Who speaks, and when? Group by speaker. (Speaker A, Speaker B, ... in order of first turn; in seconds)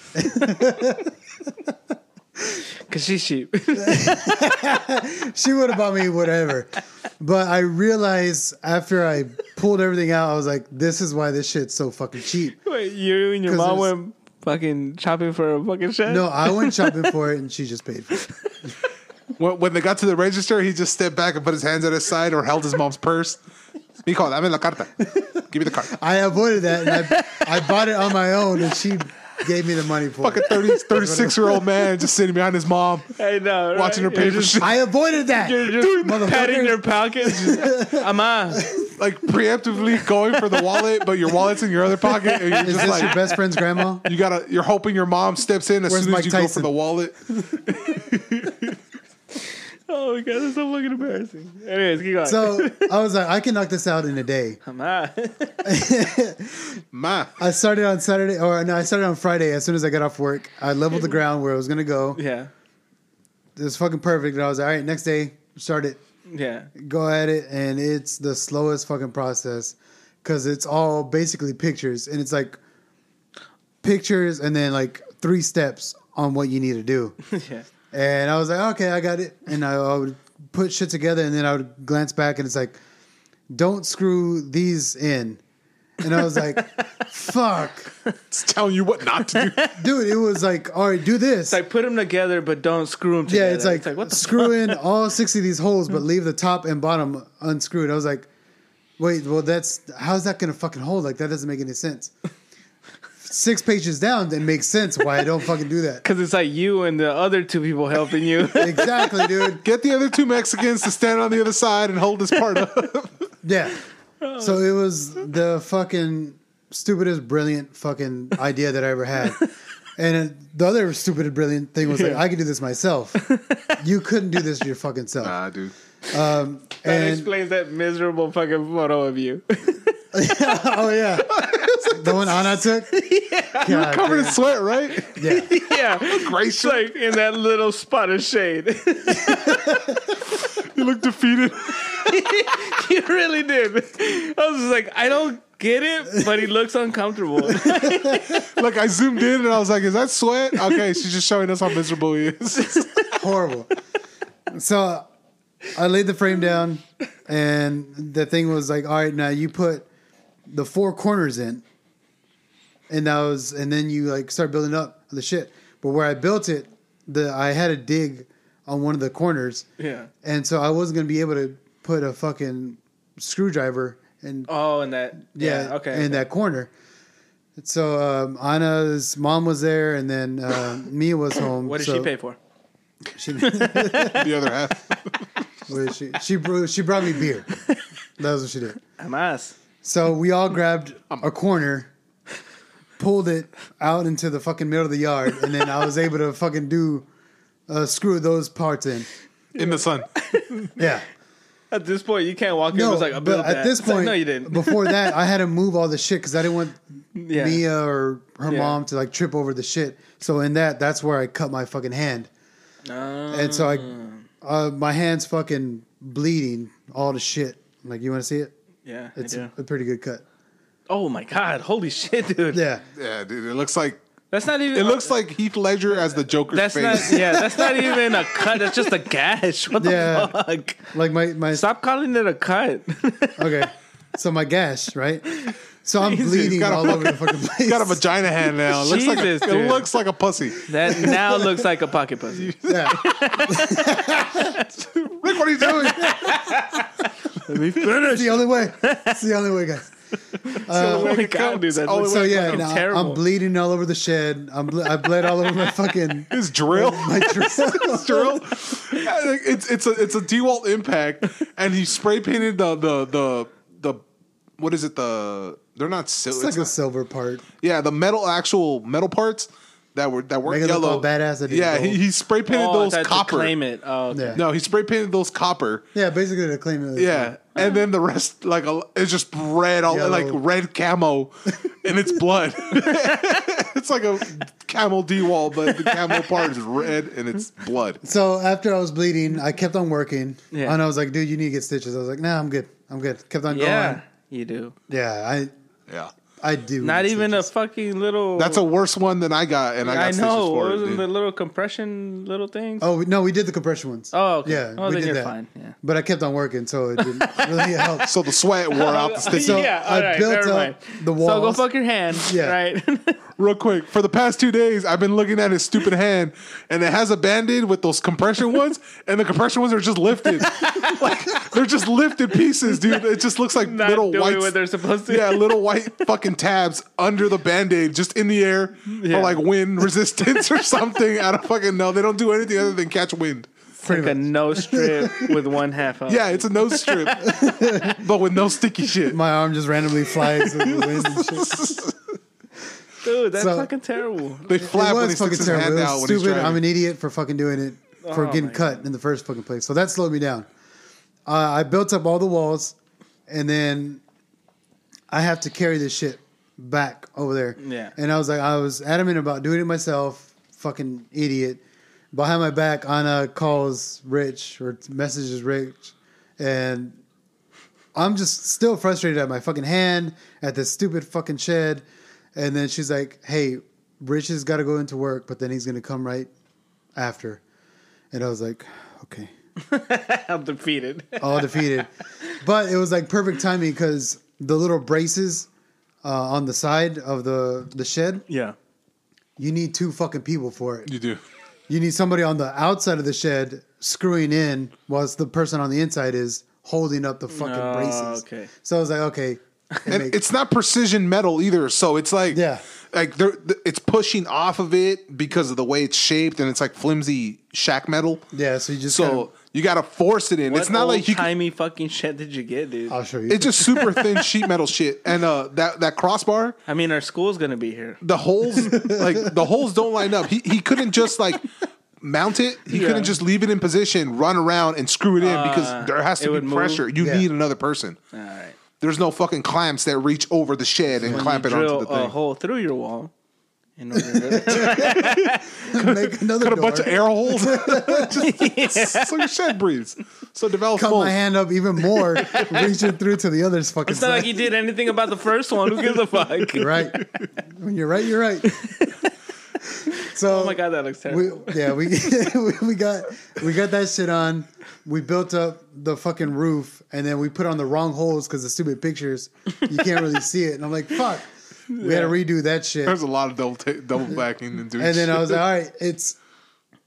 Speaker A: 0.2-1.1, 3.8-12.6, 13.5-13.9, 16.1-18.2, 25.9-31.5, 34.6-38.9, 42.6-44.1, 45.9-46.7, 52.2-54.6, 55.6-56.8, 57.4-62.2, 63.6-66.0, 66.8-72.6, 73.8-77.2, 77.9-82.8, 83.5-85.4, 86.0-87.9, 89.8-91.6, 93.3-98.3, 99.0-102.1, 103.2-106.0, 108.5-109.6, 113.4-113.8, 114.4-119.5, 120.0-123.2, 123.8-125.4, 126.1-127.3, 130.1-131.3, 131.9-133.0, 133.6-134.4, 135.2-135.5, 147.8-148.1, 153.2-153.7, 154.5-155.1, 155.7-159.9, 160.5-161.6, 162.9-169.7, 170.2-174.5, 175.3-176.7, 177.6-182.1, 183.1-184.3, 185.7-187.5, 188.2-188.8, 189.8-191.9, 193.0-197.1, 197.7-199.1, 200.8-201.1, 202.7-206.8, 207.3-212.3, 213.3-218.5, 219.2-220.2, 222.5-222.8, 229.8-230.4, 230.9-231.7, 233.4-235.3, 235.8-238.0, 242.7-244.6, 245.8-246.1, 247.8-249.9, 250.7-251.1, 252.0-258.4, 266.3-267.4, 270.4-272.0, 274.1-274.4, 275.9-277.4, 279.9-280.4, 288.0-294.0, 294.9-295.5, 296.4-297.5, 302.8-308.1, 309.3-312.6, 333.9-335.3, 337.2-338.0, 339.1-341.9, 343.4-343.7, 344.6-350.5, 351.3-352.8, 353.3-354.0, 355.1-367.0, 367.9-371.8, 372.4-376.3, 376.9-377.4, 378.1-379.3, 381.2-381.9, 382.4-385.5, 386.0-388.2, 389.4-390.9, 391.7-400.2, 402.3-402.6, 408.3-409.3, 412.9-413.9, 418.9-419.1, 427.0-427.3, 431.0-431.3, 434.0-435.1, 435.7-438.1, 440.8-444.4, 446.5-448.5, 449.9-463.0, 464.8-466.2
Speaker B: 2.9-4.4, 12.7-17.1, 26.9-27.5, 33.2-34.7, 35.4-38.7, 40.5-40.9, 42.0-43.3, 49.9-52.9, 54.7-55.7, 62.1-62.5, 66.3-66.7, 77.3-77.7, 89.3-89.8, 91.5-94.8, 106.0-109.2, 114.2-114.6, 121.9-122.2, 123.3-123.8, 126.8-129.9, 132.9-133.7, 135.2-139.9, 141.9-148.3, 169.8-170.1, 174.5-176.2, 181.6-182.4, 183.4-184.2, 189.0-189.6, 199.6-200.7, 201.7-205.1, 207.2-207.6, 208.5-208.8, 212.9-214.2, 218.9-219.5, 220.9-222.6, 224.3-225.1, 226.5-230.9, 231.5-233.7, 235.5-236.9, 238.7-239.8, 240.7-243.8, 246.0-246.9, 247.4-249.2, 250.5-253.2, 272.5-274.4, 282.8-283.1, 285.9-286.2, 290.5-290.8, 293.5-294.8, 296.8-298.6, 299.9-302.9, 304.1-305.8, 307.0-308.0, 308.7-313.2, 320.5-321.0, 323.6-325.5, 328.9-329.4, 333.8-337.2, 343.0-344.5, 348.0-348.8, 357.6-357.9, 379.7-381.8, 388.3-388.6, 397.3-398.5, 410.5-412.9, 416.7-418.0, 422.7-423.2, 425.2-426.8, 428.1-428.6, 431.1-433.1, 433.8-435.4, 438.2-439.1, 442.2-442.6, 443.9-446.8, 448.5-449.1, 450.2-451.6, 461.7-462.1
Speaker C: 19.4-23.4, 24.1-25.9, 30.2-33.1, 33.7-34.7, 39.0-43.2, 44.0-47.2, 48.1-48.5, 56.9-57.4, 88.3-89.7, 109.6-113.1, 125.2-125.7, 131.3-132.3, 133.7-135.2, 135.9-136.9, 140.6-142.1, 148.4-152.9, 184.1-185.0, 199.6-200.1, 223.0-224.0, 224.7-227.7, 236.3-241.2, 242.3-243.2, 244.8-246.4, 250.6-252.7, 256.3-264.0, 264.6-266.7, 267.6-273.5, 274.4-275.9, 277.0-288.0, 298.4-301.0, 308.1-309.7, 313.4-324.6, 325.1-333.5, 336.1-337.3, 338.0-339.2, 340.4-341.9, 344.5-346.6, 390.9-391.2, 399.9-408.2, 408.9-411.3, 413.3-416.6, 418.0-421.5, 422.0-428.0, 428.8-432.1, 434.6-441.2, 462.9-465.4